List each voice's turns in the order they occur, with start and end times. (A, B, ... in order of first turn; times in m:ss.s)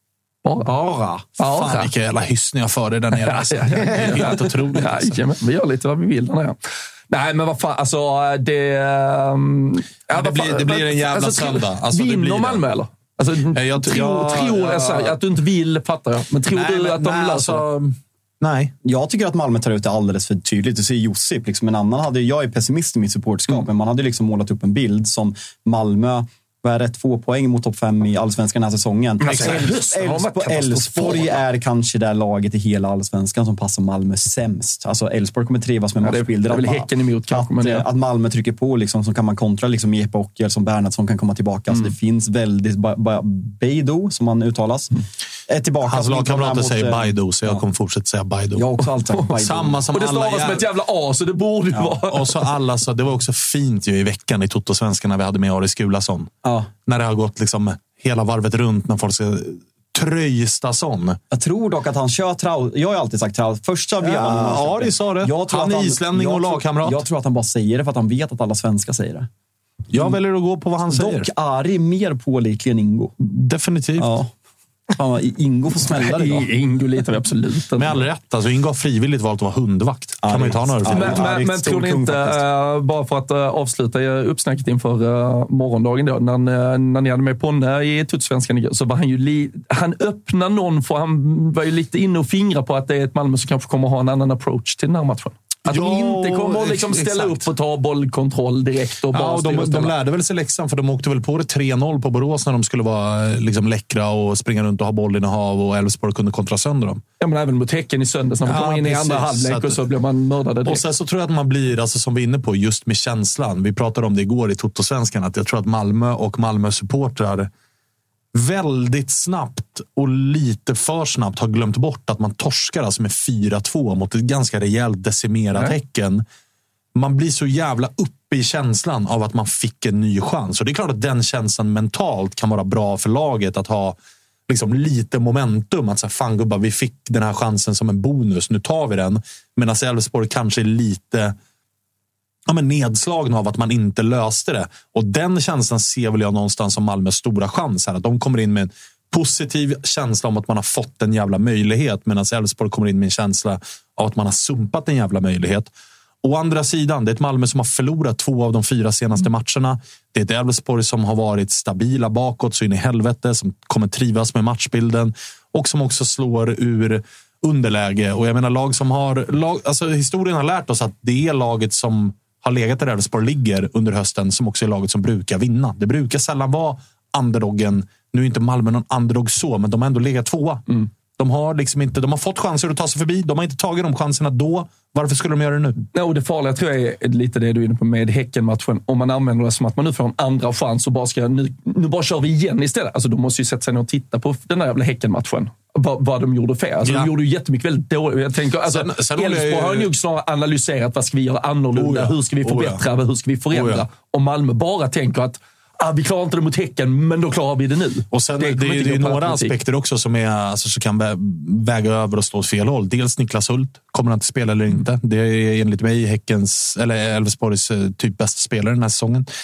0:00.4-0:00.7 A
0:00.6-0:01.4 B
0:01.4-0:01.9 A
0:01.4-0:05.2 C
0:03.2-0:06.6 A
0:07.1-0:17.6 A
0:10.1-0:12.6 C
0:13.5-0:15.2 C
0:16.5-0:18.7 C
0:18.8-0:47.6 B
0:29.2-0:31.4 A
0:29.2-0:29.7 C
0:36.0-0:37.9 A
0:45.8-0:48.6 C
0:48.5-0:49.9 B
0:49.4-0:50.6 C
0:49.9-0:52.3 A
0:51.7-0:52.0 B
0:52.1-1:01.2 C
0:56.4-0:56.7 B
1:01.3-1:09.3 B
1:04.0-1:07.0 C
1:09.9-1:10.2 B
1:09.9-1:11.3 C
1:10.8-1:13.1 B
1:13.2-1:14.1 C
1:14.0-1:14.3 B
1:14.9-1:16.5 B
1:15.9-1:18.0 A
1:17.7-1:21.5 C
1:20.2-1:22.4 B
1:20.8-1:39.9 A
1:35.6-1:37.5 C
1:39.1-1:47.0 C
1:47.2-1:50.8 A
1:48.4-1:49.8 C
1:50.6-1:57.5 C
1:58.3-2:06.2 C
2:06.9-2:14.0 C
2:14.5-2:21.3 C
2:22.5-2:35.7 C
2:36.2-3:00.6 C
3:01.2-3:05.8 C
3:05.9-3:29.6 A
3:16.8-3:17.1 C
3:18.6-3:19.9 C
3:21.7-3:22.8 C
3:23.5-3:23.8 C
3:28.1-3:39.3 C